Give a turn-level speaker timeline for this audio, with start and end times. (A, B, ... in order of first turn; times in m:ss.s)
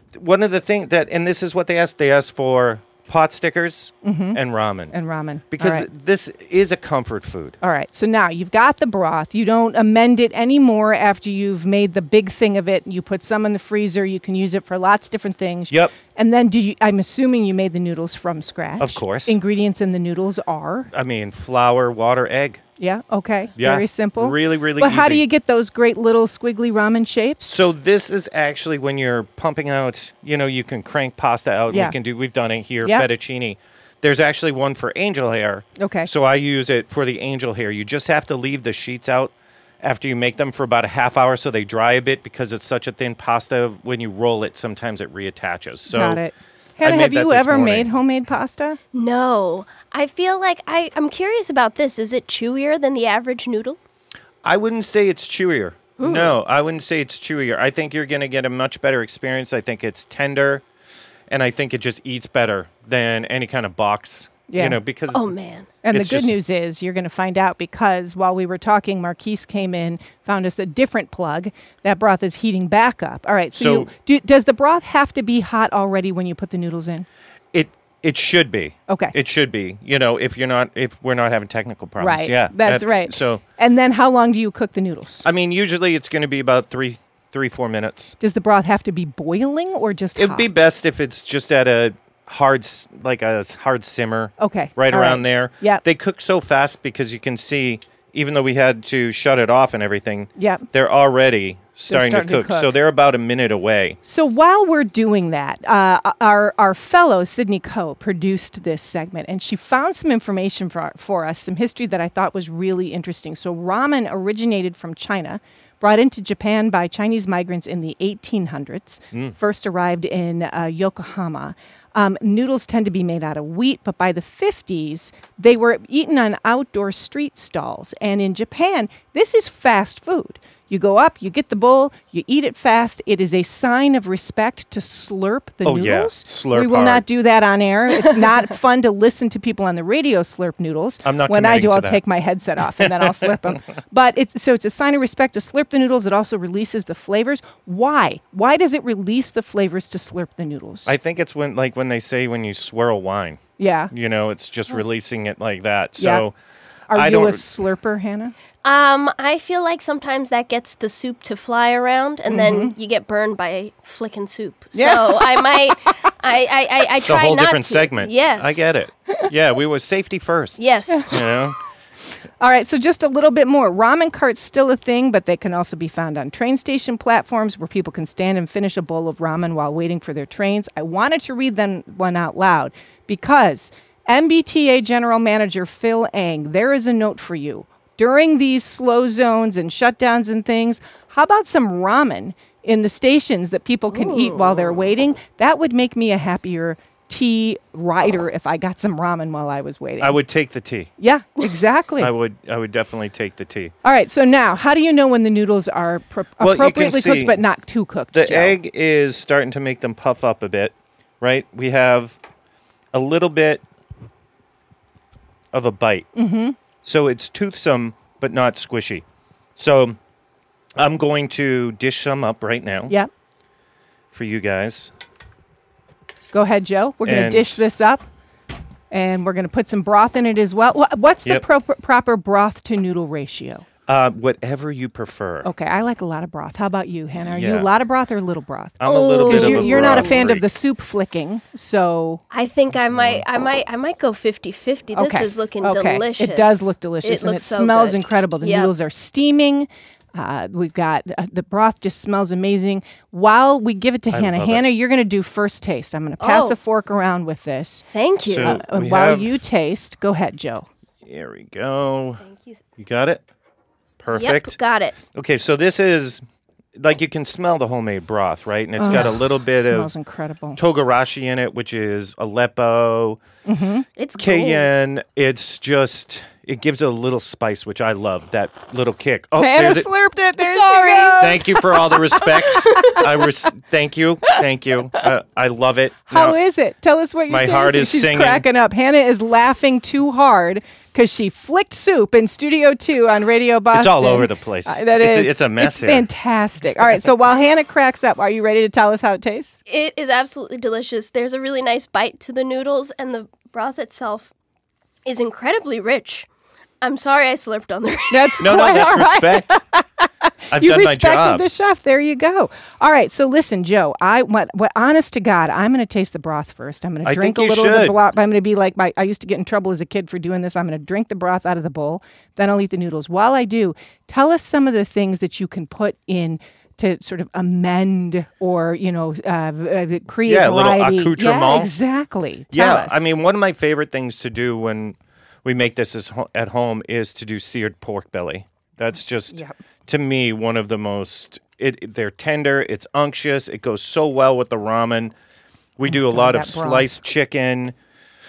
0:00.1-0:04.9 A
0:04.0-0:04.4 B
0:04.9-0:05.8 B
0:05.5-0:07.6 A
0:07.6-0:20.9 B
0:15.7-0:15.9 A
0:18.8-0:19.4 A
0:20.9-0:22.6 A
0:22.8-0:27.6 B
0:23.6-0:25.2 A
0:27.5-0:46.2 A
0:31.7-0:31.9 B
0:35.8-0:36.1 B
0:45.9-0:48.8 B
0:46.8-0:47.9 A
0:48.9-0:53.8 C
0:54.4-1:00.6 A
0:56.0-0:56.4 C
1:01.3-1:05.3 A
1:04.5-1:04.8 B
1:05.1-1:05.7 C
1:05.8-1:17.1 B
1:05.9-1:06.4 A
1:13.5-1:13.9 A
1:17.5-1:23.4 A
1:18.9-1:19.1 B
1:22.0-1:25.2 B
1:25.2-1:28.2 A
1:28.2-1:30.6 B
1:30.2-1:44.0 A
1:34.4-1:35.8 B
1:40.4-1:40.6 B
1:41.9-1:42.7 B
1:44.0-2:30.9 B
2:15.6-2:17.0 A
2:21.0-2:22.0 A
2:22.8-2:23.3 A
2:30.8-2:36.4 A
2:33.6-2:33.9 B
2:36.0-2:36.2 B
2:36.9-2:37.4 A
2:36.9-2:38.3 B
2:38.6-2:48.6 C
2:42.3-2:42.7 B
2:44.7-2:46.1 B
2:47.0-2:51.6 A
2:50.6-2:51.2 C
2:50.9-2:51.2 B
2:52.4-3:20.2 B
3:13.9-3:14.8 C
3:20.0-3:20.9 A
3:21.0-3:22.1 B
3:22.0-3:23.7 A
3:23.8-3:28.6 B
3:26.4-3:27.4 A
3:28.1-3:32.2 A
3:32.9-3:33.6 A
3:35.5-3:36.1 A
3:36.1-3:36.6 B
3:36.8-3:39.0 A
3:39.6-3:40.0 A
3:40.8-3:42.9 A
3:44.1-3:44.9 A
3:46.3-3:48.0 B
3:47.0-3:47.6 A
3:48.9-3:53.6 B
3:53.9-3:55.5 A
3:55.4-4:02.2 B
3:57.3-3:57.7 A
3:58.8-4:00.5 A
3:58.8-4:00.2 C
4:02.3-4:08.7 C
4:02.9-4:03.2 A
4:04.9-4:17.8 B
4:14.1-4:14.6 A
4:16.2-4:16.6 C
4:17.9-4:18.6 C
4:18.2-4:19.4 A
4:18.4-4:20.7 B
4:21.0-4:22.2 A
4:22.2-4:22.6 C
4:22.8-4:23.2 A
4:24.0-4:24.6 A
4:24.1-4:24.9 C
4:25.1-4:26.2 A
4:26.8-4:29.9 A
4:28.8-4:30.6 B
4:30.6-4:33.2 A
4:33.4-4:33.8 B
4:34.0-4:34.7 C
4:34.2-4:39.9 A
4:39.4-4:43.1 B
4:40.4-4:41.4 C
4:41.2-4:46.4 A
4:42.6-4:43.0 C
4:46.1-4:59.6 B
4:47.3-4:48.4 A
4:53.7-4:56.1 A
4:59.7-5:04.3 C
5:05.0-5:06.3 C
5:06.8-5:08.6 C
5:08.1-5:33.0 B
5:08.4-5:09.5 A
5:10.5-5:11.4 A
5:17.0-5:18.0 A
5:30.2-5:31.7 A
5:32.5-5:45.1 A
5:45.8-5:47.7 A
5:45.8-5:47.0 B